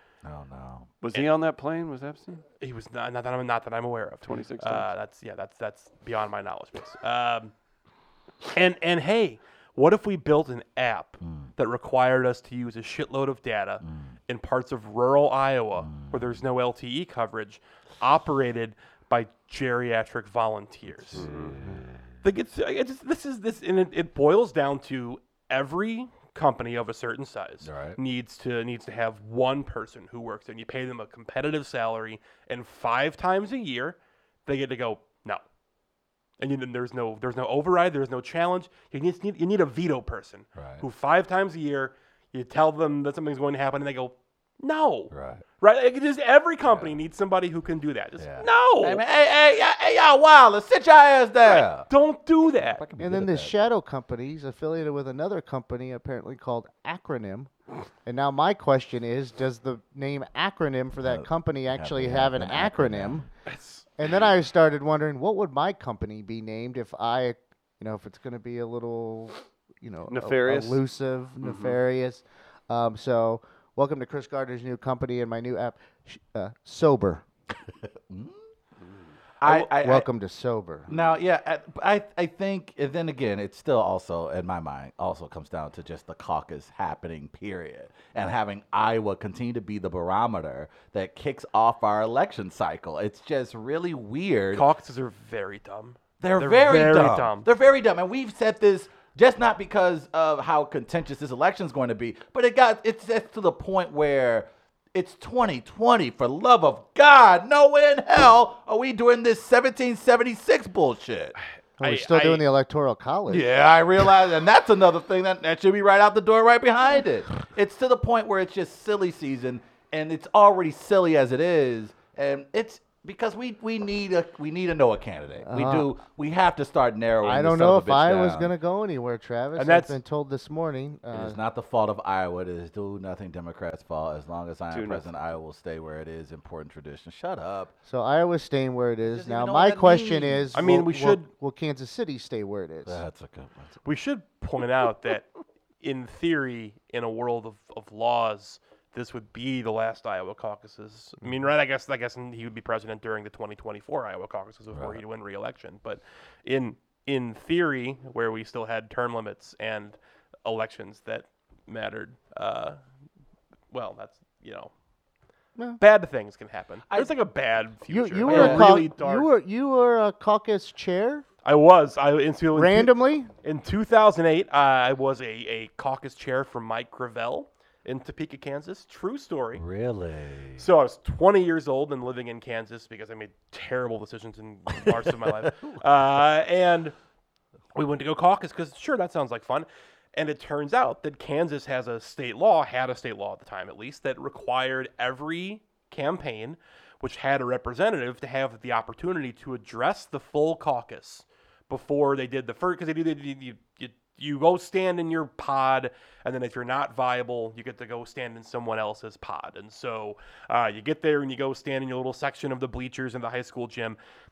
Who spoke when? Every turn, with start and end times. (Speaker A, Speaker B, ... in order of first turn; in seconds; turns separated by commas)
Speaker A: 0.2-0.9, Speaker B: 1.0-2.4, Speaker C: 2.6-7.5, Speaker B: 4.2-4.9, Speaker C: 8.5-21.3, Speaker A: 11.2-11.5, Speaker A: 13.8-14.1, Speaker A: 15.8-16.2, Speaker A: 21.0-22.0, Speaker B: 21.1-21.6, Speaker C: 22.2-35.4, Speaker A: 27.6-28.0, Speaker C: 36.4-49.0, Speaker A: 40.6-40.8, Speaker A: 45.1-45.4, Speaker A: 48.2-51.9, Speaker C: 51.4-52.8, Speaker A: 52.7-53.5, Speaker D: 53.0-57.5, Speaker D: 58.0-63.3, Speaker A: 61.0-63.3, Speaker C: 63.5-63.9, Speaker D: 64.0-77.2, Speaker B: 70.1-70.8, Speaker B: 71.4-71.8, Speaker A: 78.1-78.4, Speaker B: 78.8-79.1, Speaker A: 79.4-80.1, Speaker D: 79.5-80.9, Speaker A: 80.9-94.7, Speaker C: 94.5-97.5, Speaker A: 96.2-111.4, Speaker C: 111.8-112.4, Speaker D: 111.8-113.5, Speaker A: 113.3-128.5, Speaker D: 125.5-125.9, Speaker D: 127.2-131.4, Speaker C: 129.6-130.0, Speaker A: 131.1-137.7, Speaker B: 134.7-135.1, Speaker D: 137.8-143.0, Speaker A: 139.1-140.7, Speaker C: 140.5-141.3, Speaker A: 142.9-143.8, Speaker C: 143.8-145.3, Speaker C: 145.8-162.8, Speaker C: 163.7-164.7, Speaker C: 165.8-169.3, Speaker D: 167.9-171.2, Speaker A: 168.2-168.9, Speaker C: 171.4-179.6, Speaker D: 172.5-173.3, Speaker A: 179.6-180.7, Speaker C: 180.6-186.9, Speaker A: 184.8-185.8, Speaker C: 187.8-214.0